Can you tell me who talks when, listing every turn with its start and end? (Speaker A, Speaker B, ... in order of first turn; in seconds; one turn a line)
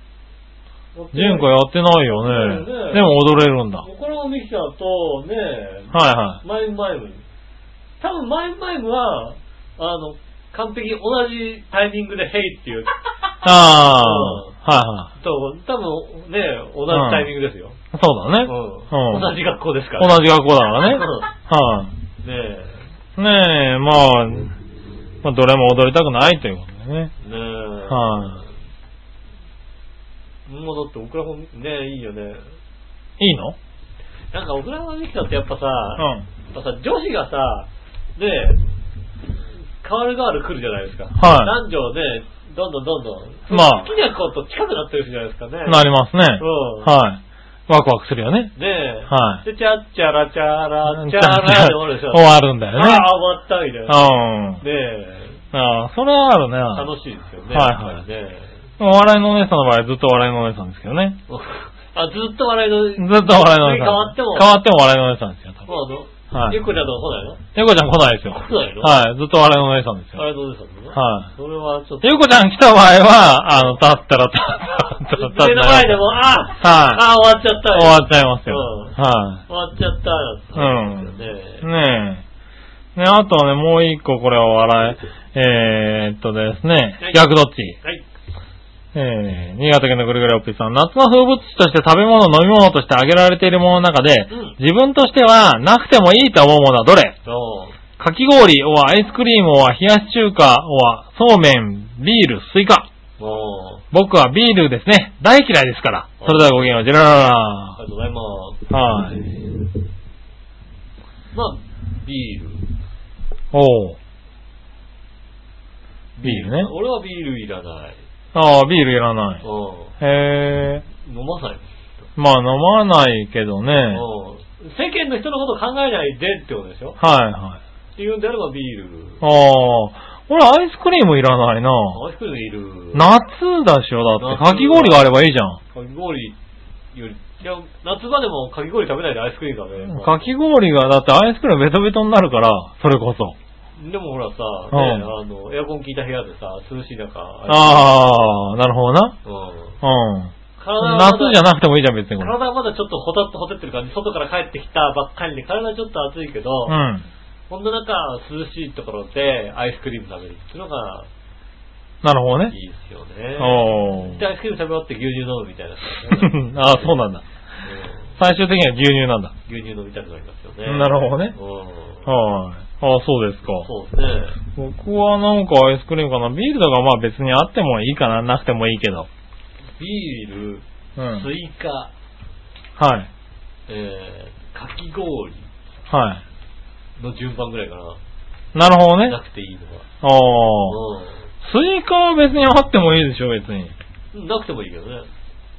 Speaker A: 0.9-1.5
Speaker B: 1.1-3.9
Speaker A: 2.1-3.1
Speaker A: 3.8-7.2
Speaker B: 5.9-6.4
Speaker A: 8.0-12.9
Speaker B: 13.4-15.1
Speaker A: 13.9-14.5
Speaker A: 15.2-17.8
Speaker B: 16.9-17.3
Speaker B: 17.9-19.4
Speaker A: 18.4-20.2
Speaker B: 20.0-21.9
Speaker A: 20.8-21.3
Speaker A: 22.2-22.8
Speaker B: 23.2-24.5
Speaker B: 25.2-27.1
Speaker A: 27.2-28.4
Speaker B: 27.9-28.4
Speaker A: 30.5-32.4
Speaker B: 33.2-33.5
Speaker A: 34.3-38.6
Speaker B: 36.0-36.2
Speaker A: 39.8-45.9
Speaker B: 41.2-41.5
Speaker B: 43.5-43.9
Speaker B: 45.6-48.5
Speaker A: 46.4-46.9
Speaker A: 48.5-54.0
Speaker B: 49.1-49.4
Speaker B: 50.9-53.1
Speaker B: 53.9-54.6
Speaker A: 54.6-55.4
Speaker B: 55.5-56.9
Speaker A: 56.7-58.5
Speaker B: 57.5-58.0
Speaker B: 58.8-61.2
Speaker A: 61.3-64.5
Speaker B: 63.0-65.7
Speaker A: 65.7-67.4
Speaker B: 66.3-66.6
Speaker B: 67.5-70.2
Speaker A: 68.3-69.0
Speaker A: 70.1-72.1
Speaker B: 70.9-71.3
Speaker B: 72.0-77.0
Speaker A: 75.0-81.7
Speaker B: 77.7-79.4
Speaker B: 80.5-82.2
Speaker B: 82.9-87.8
Speaker A: 87.0-88.0
Speaker B: 88.9-97.2
Speaker A: 94.3-94.6
Speaker A: 97.2-97.8
Speaker B: 98.0-102.9
Speaker A: 103.2-103.8
Speaker B: 103.9-107.8
Speaker A: 106.2-106.8
Speaker A: 107.8-108.7
Speaker B: 108.7-109.3
Speaker A: 111.3-112.7
Speaker B: 113.5-114.0
Speaker A: 116.2-118.0
Speaker B: 116.2-116.7
Speaker B: 118.3-119.4
Speaker A: 119.4-119.9
Speaker B: 120.0-120.8
Speaker A: 121.0-121.6
Speaker B: 122.2-124.0
Speaker A: 123.9-127.0
Speaker B: 127.0-127.6
Speaker A: 128.0-129.2
Speaker B: 129.2-132.0
Speaker A: 131.9-133.1
Speaker B: 132.9-135.6
Speaker A: 134.2-135.1
Speaker A: 135.7-136.4
Speaker A: 136.9-140.2
Speaker B: 139.9-143.3
Speaker A: 143.8-148.0
Speaker B: 144.7-145.1
Speaker B: 147.5-149.2
Speaker A: 149.2-149.8
Speaker B: 149.8-152.3
Speaker A: 150.6-151.4
Speaker A: 152.2-156.8
Speaker B: 156.7-157.1
Speaker A: 157.5-161.1
Speaker B: 162.0-162.5
Speaker A: 162.5-167.0
Speaker B: 163.4-164.2
Speaker B: 166.1-167.2
Speaker A: 167.6-168.1
Speaker B: 168.2-169.3
Speaker A: 169.5-172.1
Speaker B: 170.6-171.3
Speaker B: 172.1-173.7
Speaker A: 173.6-174.4
Speaker B: 174.6-179.1
Speaker A: 179.8-181.9
Speaker B: 181.0-181.3
Speaker B: 182.8-183.1
Speaker A: 183.7-185.5
Speaker B: 185.9-186.2
Speaker A: 187.0-188.0
Speaker B: 188.5-189.2
Speaker A: 189.0-189.9
Speaker B: 190.0-190.8
Speaker A: 190.7-191.2
Speaker B: 191.4-193.7
Speaker A: 194.1-195.1